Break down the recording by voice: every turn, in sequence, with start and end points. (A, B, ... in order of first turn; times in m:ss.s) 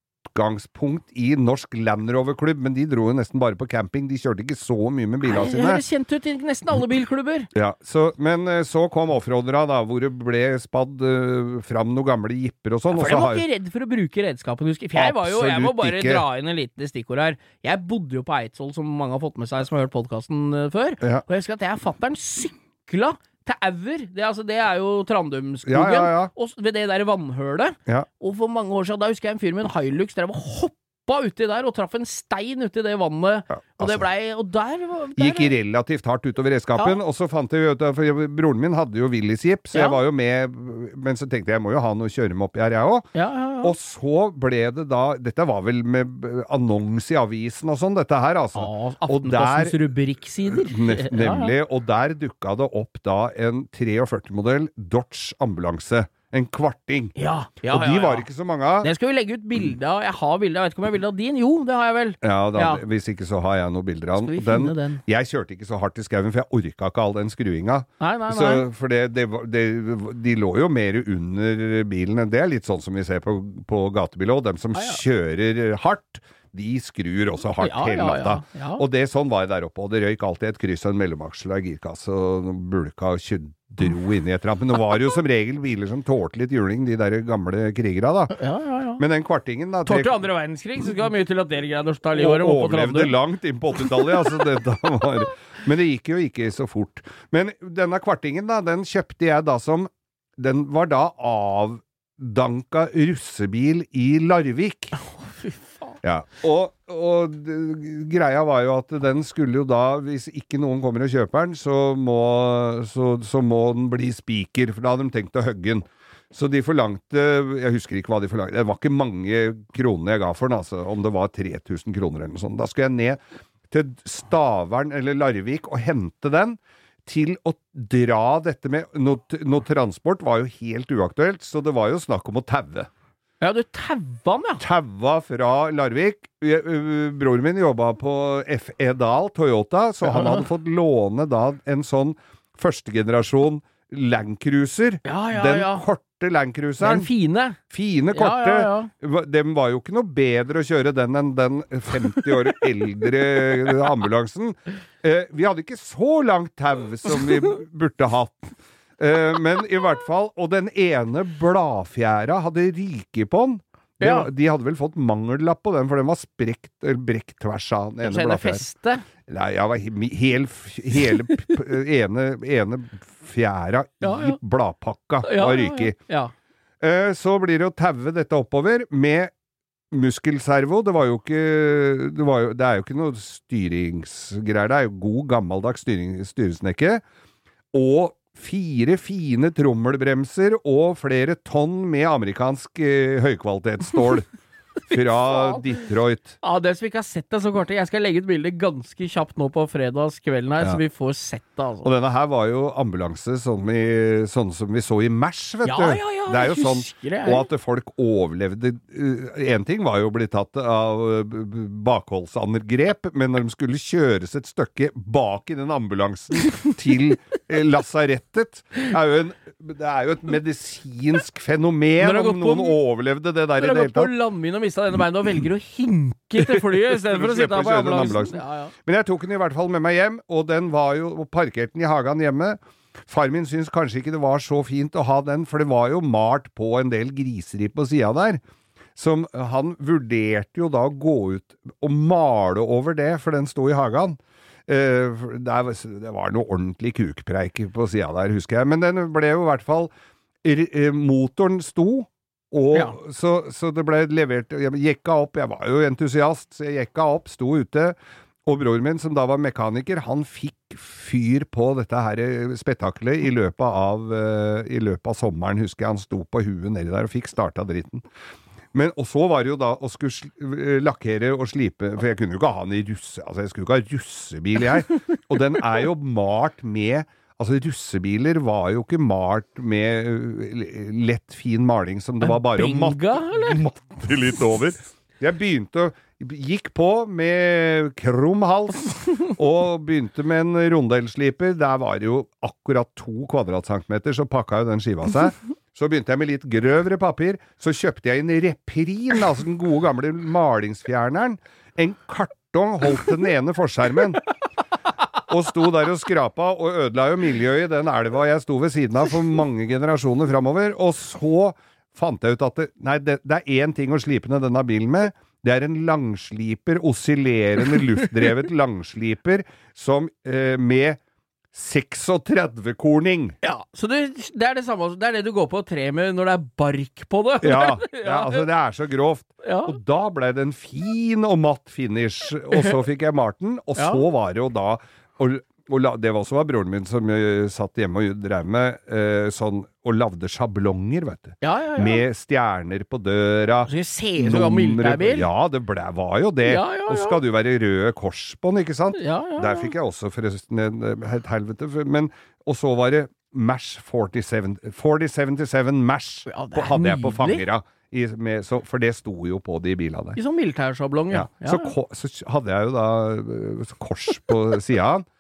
0:00.3-0:05.8 A
0:05.2-0:07.5 B
0:07.5-0:13.4 A
0:12.9-0:35.5 B
0:15.0-0:16.3 A
0:25.7-0:26.3 A
0:33.5-0:34.1 A
0:35.2-0:43.1 A
0:39.7-0:40.0 B
0:43.1-0:43.7 B
0:43.6-0:49.8 A
0:48.6-0:51.5 B
0:50.4-0:58.9 A
0:57.2-0:58.3 B
0:58.8-1:02.8 B
1:02.2-1:28.4 A
1:04.2-1:05.0 B
1:08.0-1:08.6 B
1:17.6-1:18.8 B
1:28.3-1:29.0 B
1:29.0-1:30.2 A
1:29.9-1:33.2 B
1:32.1-1:45.0 A
1:45.0-1:46.0 B
1:46.0-2:03.2 A
2:03.7-2:12.9 A
2:13.4-2:14.6 B
2:14.6-2:48.7 A
2:20.0-2:20.4 B
2:25.0-2:25.8 B
2:26.8-2:27.6 B
2:28.1-2:28.9 B
2:44.0-2:44.3 B
2:48.0-2:49.1 B
2:49.3-2:56.0 A
2:54.0-2:54.4 B
2:55.2-2:56.3 B
2:56.8-2:59.3 A
2:59.9-3:07.0 A
3:07.7-3:14.3 A
3:14.9-3:16.4 A
3:15.3-3:15.6 B
3:16.4-3:21.9 B
3:21.8-3:44.1 A
3:25.6-3:27.4 B
3:42.0-3:42.8 B
3:43.6-3:48.7 B
3:46.4-3:58.4 A
3:59.0-4:09.9 A
4:10.4-4:28.0 A
4:28.7-5:04.3 A
4:42.2-4:43.6 B
5:05.3-5:21.0 A
5:21.5-5:23.4 A
5:23.4-5:28.4 B
5:27.4-6:00.2 A
5:29.4-5:29.7 B
5:33.8-5:34.0 B
5:41.4-5:42.0 B
5:43.6-5:45.3 B
5:46.5-5:47.2 B
5:49.0-5:49.7 B
5:56.3-5:57.5 B
6:00.2-6:01.7 B
6:01.1-6:05.0 A